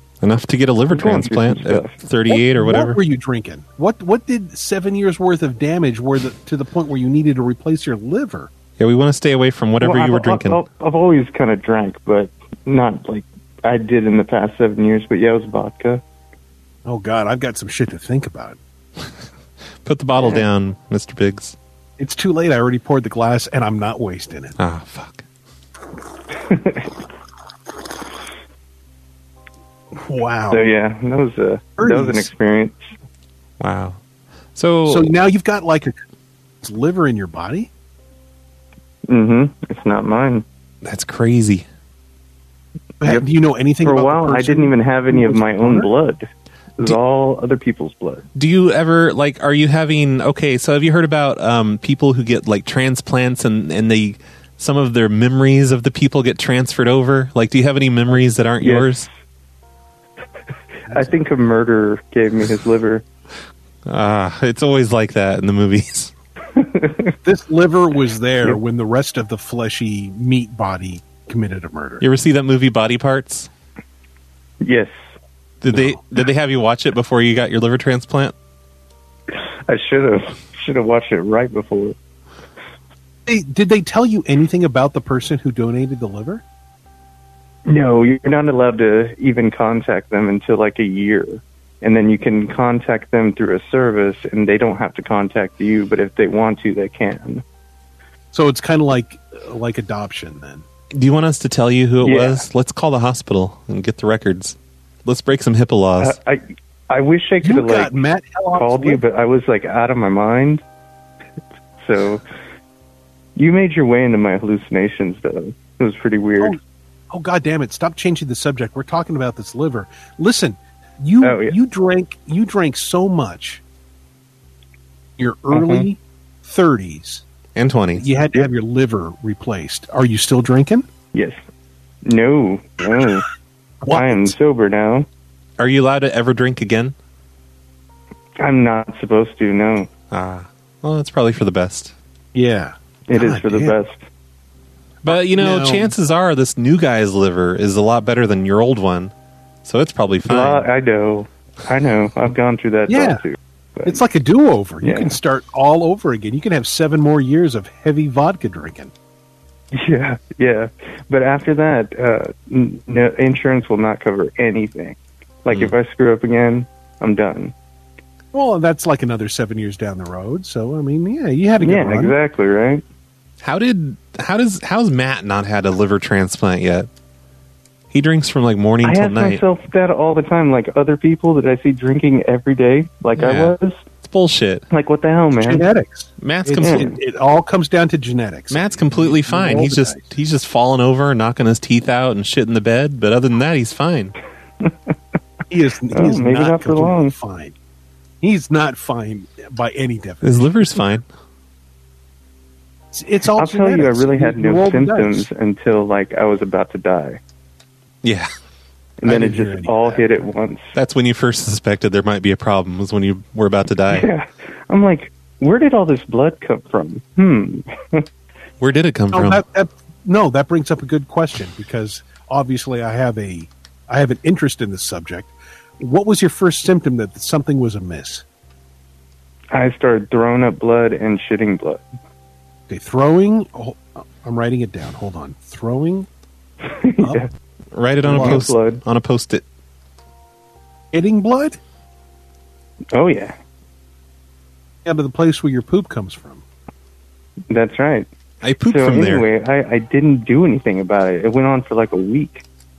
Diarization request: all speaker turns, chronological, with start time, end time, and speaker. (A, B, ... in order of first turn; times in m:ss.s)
0:00.2-0:03.0 A
0:00.9-0:02.0 B
0:02.3-0:08.5 C
0:08.8-0:10.6 A
0:09.8-0:16.0 B
0:16.8-0:18.6 C
0:19.8-0:21.6 A
0:20.2-0:20.4 B
0:22.0-0:24.6 C
0:24.6-0:25.2 A
0:26.4-0:26.9 B
0:29.9-0:30.7 C
0:30.5-0:32.9 B
0:31.8-0:32.3 C
0:33.6-0:34.0 A
0:34.6-0:35.1 A
0:34.8-0:36.0 C
0:36.6-0:37.7 C
0:39.1-0:40.4 B
0:40.8-0:41.6 A
0:43.0-0:45.9 C
0:43.8-0:46.3 B
0:46.8-0:48.2 B
0:48.3-0:59.1 A
0:58.6-0:59.1 B
1:00.9-1:01.1 C
1:00.9-1:03.0 B
1:03.9-1:06.1 A
1:06.6-1:07.1 B
1:07.2-1:12.0 C
1:12.0-1:13.5 A
1:14.6-1:14.9 B
1:15.6-1:18.3 A
1:15.7-1:16.0 C
1:19.7-1:22.0 B
1:23.2-1:26.4 C
1:27.6-1:37.4 B
1:38.3-1:40.6 C
1:41.0-1:46.1 A
1:42.0-1:42.4 B
1:46.0-1:50.6 B
1:47.4-1:49.0 C
1:51.8-1:52.2 B
1:53.4-1:56.6 B
1:57.1-2:03.6 C
2:01.2-2:01.6 B
2:05.2-2:07.2 C
2:05.5-2:05.9 B
2:07.6-2:08.1 A
2:07.9-2:10.9 C
2:11.1-2:11.4 B
2:12.0-2:13.3 B
2:13.8-2:14.3 C
2:13.9-2:15.1 B
2:15.6-2:16.9 A
2:18.4-2:19.9 B
2:20.1-2:21.9 A
2:22.3-2:23.7 C
2:23.1-2:24.0 B
2:25.0-2:29.1 A
2:25.0-2:25.9 C
2:29.6-2:30.6 A
2:30.2-2:34.0 B
2:32.9-2:33.2 C
2:33.8-2:38.9 C
2:34.8-2:35.2 B
2:39.7-2:47.5 B
2:48.3-2:52.1 C
2:51.6-2:52.8 B
2:53.4-2:56.9 A
2:57.9-2:59.4 A
2:58.8-3:03.8 B
3:03.2-3:04.6 A
3:04.7-3:05.6 B
3:05.3-3:10.1 C
3:06.2-3:06.9 A
3:06.6-3:06.9 B
3:08.5-3:14.1 A
3:15.5-3:17.6 C
3:15.9-3:17.1 B
3:18.2-3:20.5 C
3:20.2-3:21.0 A
3:22.9-3:25.2 C
3:23.3-3:27.2 B
3:28.0-3:28.3 A
3:29.0-3:30.7 B
3:29.0-3:30.0 C
3:30.7-3:34.1 A
3:33.9-3:38.0 B
3:38.6-3:39.4 A
3:39.1-3:48.2 C
3:49.5-3:51.8 B
3:52.7-3:56.1 C
3:56.6-3:57.3 B
3:57.7-3:59.4 A
3:58.0-3:58.4 C
3:58.0-3:58.8 B
4:00.9-4:01.6 C
4:02.9-4:03.4 B
4:04.8-4:06.4 C
4:07.5-4:08.1 B
4:08.4-4:09.3 A
4:08.6-4:12.4 B